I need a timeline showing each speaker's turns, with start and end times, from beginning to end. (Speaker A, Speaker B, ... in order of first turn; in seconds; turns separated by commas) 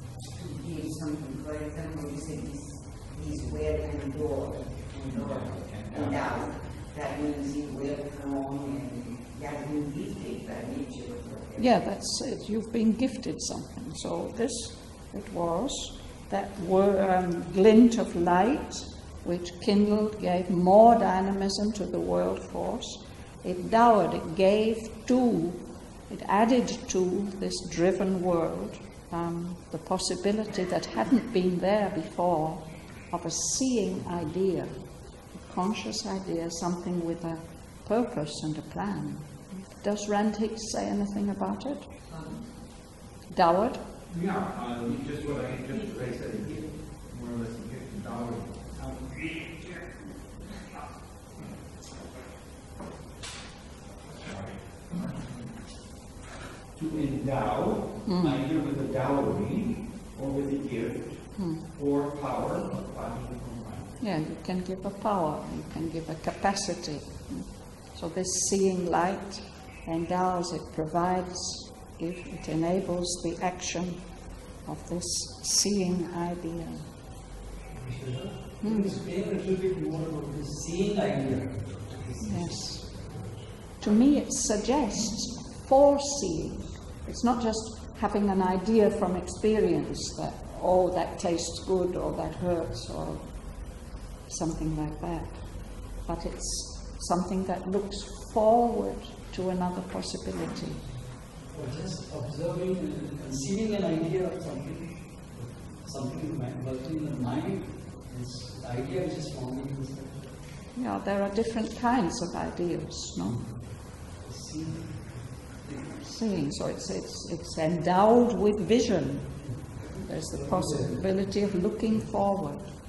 Speaker A: 0.3-11.8, Speaker B: 4.9-6.3, Speaker C: 11.6-34.7, Speaker C: 35.3-41.9, Speaker C: 43.3-43.8, Speaker B: 44.1-49.5, Speaker B: 54.0-55.5, Speaker B: 56.7-63.9, Speaker C: 58.0-58.4, Speaker C: 61.4-61.6, Speaker C: 64.0-74.1, Speaker C: 74.6-76.8, Speaker D: 77.7-83.4, Speaker C: 78.6-79.0, Speaker C: 82.2-82.8, Speaker C: 83.8-93.5, Speaker C: 94.3-100.9, Speaker D: 101.5-110.4, Speaker C: 110.7-113.4, Speaker D: 113.2-116.0, Speaker C: 116.0-122.7, Speaker D: 119.4-121.1